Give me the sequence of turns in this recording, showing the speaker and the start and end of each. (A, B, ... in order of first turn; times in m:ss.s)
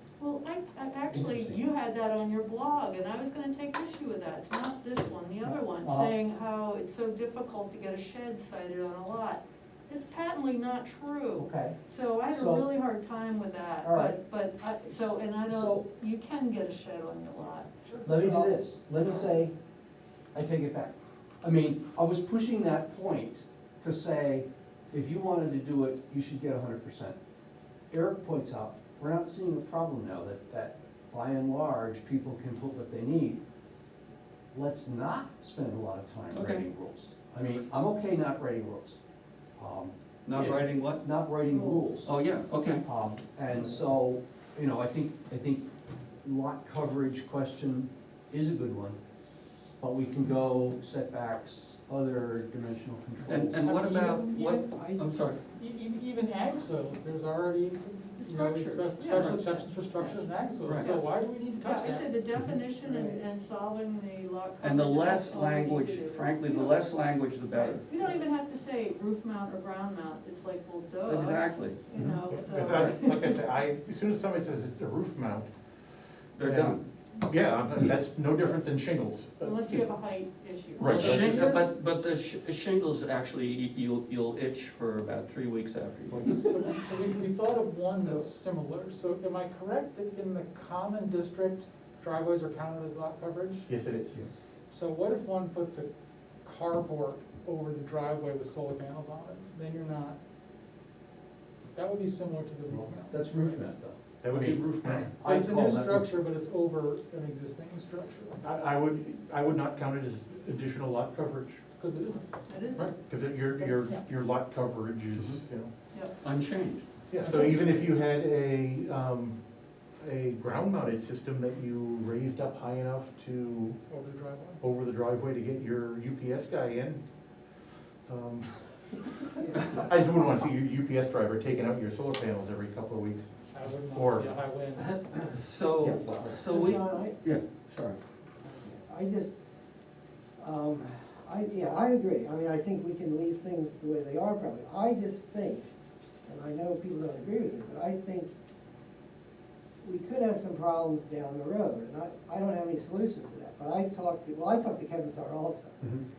0:00.2-0:18.6 A
0:01.1-0:01.6 B
0:05.4-0:06.1 B
0:11.3-0:11.8 B
0:12.3-0:12.7 B
0:13.8-0:14.2 B
0:15.5-0:15.9 B
0:18.0-0:19.5 B
0:20.3-0:27.2 B
0:27.9-0:33.4 B
0:34.5-0:39.0 B
0:36.3-0:36.7 C
0:39.6-0:39.9 B
0:40.2-0:41.1 C
0:41.0-0:42.1 B
0:41.4-0:41.9 A
0:42.0-0:42.9 C
0:42.8-0:45.6 B
0:46.2-0:49.0 B
0:49.8-0:53.6 B
0:53.3-0:55.4 C
0:53.6-0:54.7 D
0:54.7-0:55.1 E
0:55.6-1:02.1 D
0:58.3-0:59.4 C
0:58.4-1:13.4 A
1:02.8-1:03.2 E
1:04.6-1:07.8 C
1:11.1-1:11.8 C
1:12.0-1:15.5 F
1:12.8-1:13.1 C
1:16.4-1:16.8 C
1:16.4-1:19.8 F
1:19.4-1:21.3 A
1:20.8-1:21.4 F
1:20.9-1:21.7 D
1:20.9-1:26.5 C
1:26.2-1:33.7 D
1:33.7-1:34.2 F
1:34.7-1:35.9 D
1:36.4-1:40.2 D
1:41.8-1:43.6 D
1:42.7-1:46.1 B
1:44.2-1:45.1 F
1:45.2-1:48.4 D
1:48.4-1:51.6 F
1:51.8-1:52.2 D
1:52.5-1:53.0 A
1:52.8-1:55.7 F
1:56.2-1:56.8 C
1:57.1-1:59.4 F
1:57.2-1:57.9 D
2:00.0-2:03.8 F
2:03.9-2:04.6 D
2:04.6-2:07.0 F
2:08.1-2:14.3 F
2:13.5-2:15.0 D
2:15.3-2:18.0 C
2:16.0-2:17.2 E
2:18.4-2:19.3 E
2:20.4-2:25.7 E
2:26.2-2:28.3 E
2:29.8-2:35.8 E